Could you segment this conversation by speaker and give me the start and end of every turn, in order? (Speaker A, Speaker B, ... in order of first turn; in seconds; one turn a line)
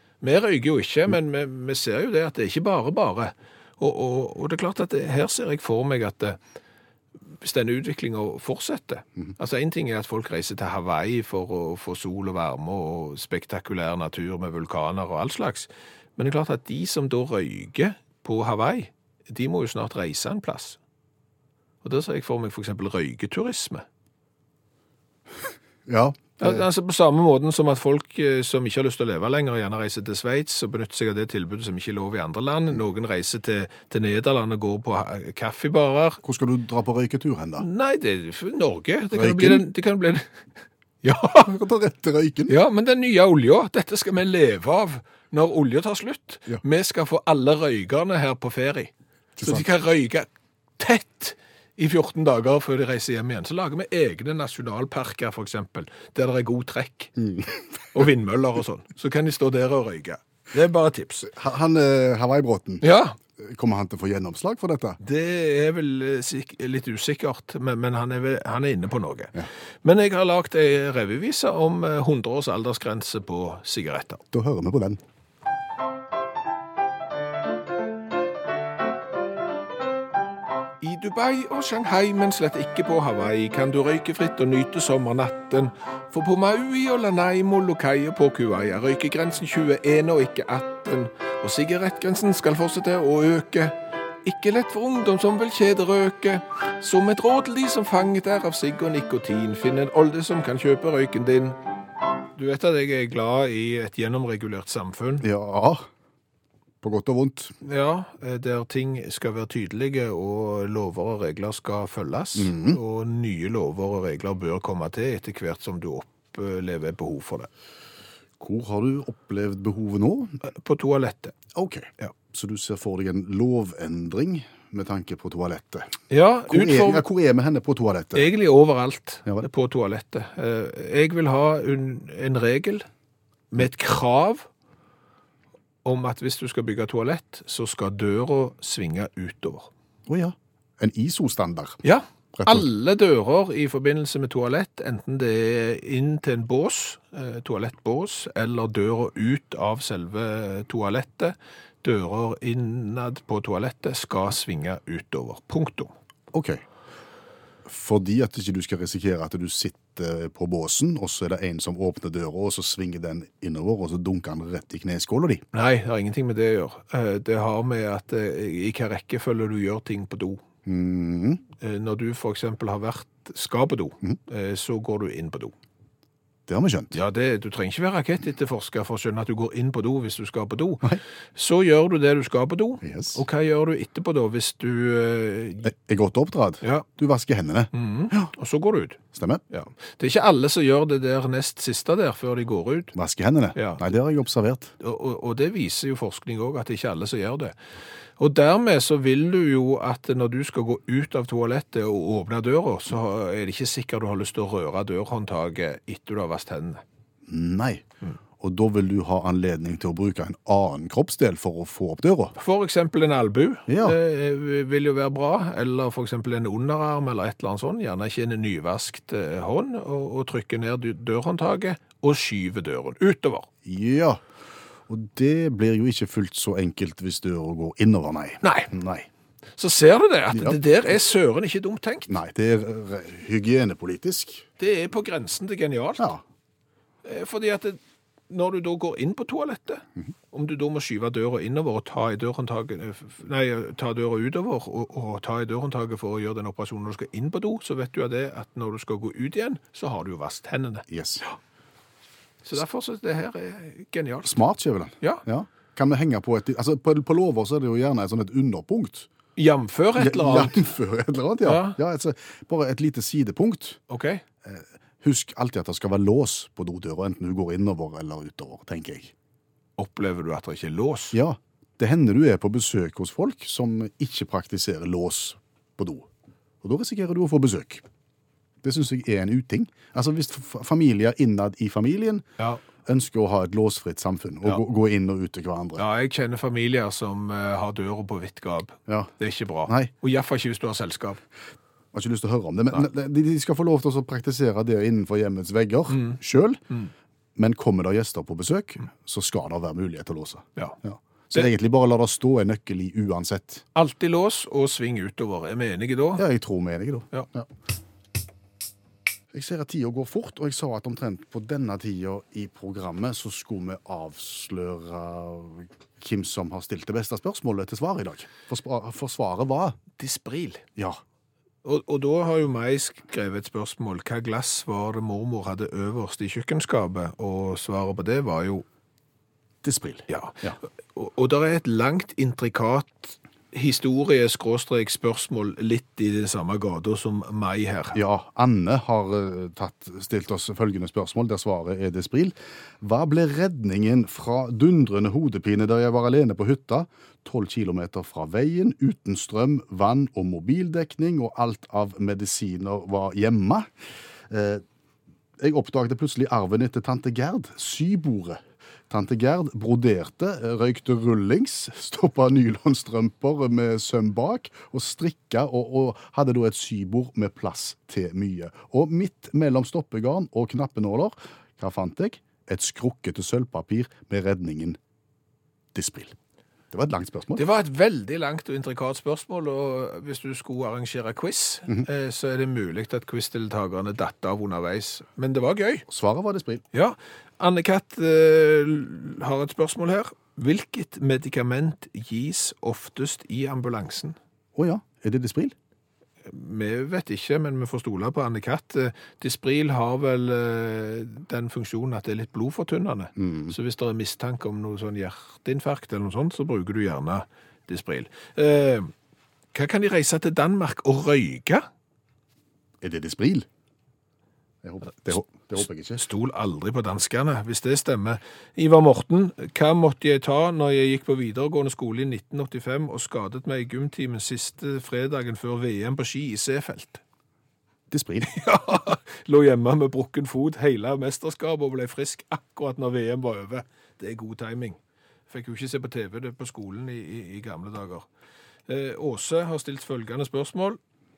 Speaker A: 0.2-6.4
Speaker A: 7.4-20.8
Speaker A: 21.8-23.9
Speaker B: 25.9-26.6
Speaker A: 26.4-36.2
Speaker B: 36.2-37.6
Speaker A: 37.6-40.4
Speaker B: 39.1-39.6
Speaker A: 41.0-41.5
Speaker B: 41.4-42.5
Speaker A: 42.5-48.9
Speaker B: 49.4-49.6
Speaker A: 49.4-50.3
Speaker A: 50.8-57.1
Speaker B: 57.2-57.6
Speaker A: 57.9-61.3
Speaker B: 61.3-62.9
Speaker A: 62.8-63.2
Speaker B: 63.4-65.0
Speaker A: 65.0-74.2
Speaker B: 74.3-75.0
Speaker A: 80.8-101.6
Speaker A: 102.4-105.2
Speaker B: 105.2-105.9
Speaker B: 106.8-107.5
Speaker A: 107.6-117.5
Speaker B: 112.3-112.8
Speaker B: 118.4-120.4
Speaker A: 120.4-121.3
Speaker B: 121.5-125.9
Speaker A: 126.1-127.0
Speaker B: 126.5-128.3
Speaker A: 128.1-132.9
Speaker A: 133.5-134.5
Speaker A: 135.8-139.7
Speaker B: 140.1-141.8
Speaker A: 141.8-155.9
Speaker B: 142.3-142.7
Speaker B: 156.3-156.6
Speaker B: 157.7-165.4
Speaker A: 165.5-170.4
Speaker B: 170.7-171.4
Speaker A: 171.6-175.5
Speaker B: 176.5-176.9
Speaker A: 176.9-185.7
Speaker B: 182.8-183.2
Speaker B: 185.6-188.3
Speaker A: 187.7-192.9
Speaker B: 189.1-189.4
Speaker B: 192.9-194.7
Speaker A: 193.5-193.8
Speaker A: 194.8-197.6
Speaker A: 198.2-206.8
Speaker B: 207.2-207.8
Speaker B: 208.4-212.3
Speaker A: 212.4-223.5
Speaker B: 213.7-214.0
Speaker B: 223.6-224.2
Speaker B: 224.9-229.1
Speaker A: 228.4-228.7
Speaker A: 229.6-232.1
Speaker B: 230.3-230.6
Speaker B: 232.1-234.5
Speaker A: 234.6-236.1
Speaker A: 237.0-237.8
Speaker A: 238.3-251.4
Speaker B: 250.9-251.2
Speaker A: 252.4-254.4
Speaker B: 254.2-259.1
Speaker A: 259.4-260.6
Speaker B: 260.0-263.8
Speaker A: 261.4-261.8
Speaker A: 263.9-264.2
Speaker B: 264.4-269.1
Speaker A: 269.8-271.2
Speaker B: 271.1-276.1
Speaker B: 276.6-277.8
Speaker B: 278.6-282.2
Speaker B: 282.8-285.8
Speaker A: 285.8-291.2
Speaker B: 288.9-289.1
Speaker B: 289.7-289.9
Speaker B: 291.9-296.6
Speaker A: 295.9-296.2
Speaker B: 297.4-303.6
Speaker A: 303.8-306.2
Speaker B: 306.2-307.5
Speaker B: 309.3-319.8
Speaker A: 320.0-320.6
Speaker A: 321.6-328.6
Speaker B: 329.6-330.6
Speaker A: 330.1-330.4
Speaker A: 330.9-338.0
Speaker B: 337.9-353.7
Speaker B: 354.3-354.6
Speaker B: 355.4-374.8
Speaker B: 375.7-376.2
Speaker B: 376.7-377.4
Speaker A: 377.4-385.8
Speaker B: 385.9-386.6
Speaker A: 386.7-394.2
Speaker B: 394.5-395.5
Speaker A: 396.2-408.9
Speaker B: 403.2-403.5
Speaker A: 409.5-411.7
Speaker B: 412.8-413.5
Speaker B: 414.6-416.0
Speaker A: 416.0-427.0
Speaker B: 427.9-428.3
Speaker A: 428.2-434.8
Speaker A: 435.3-438.1
Speaker A: 438.7-440.8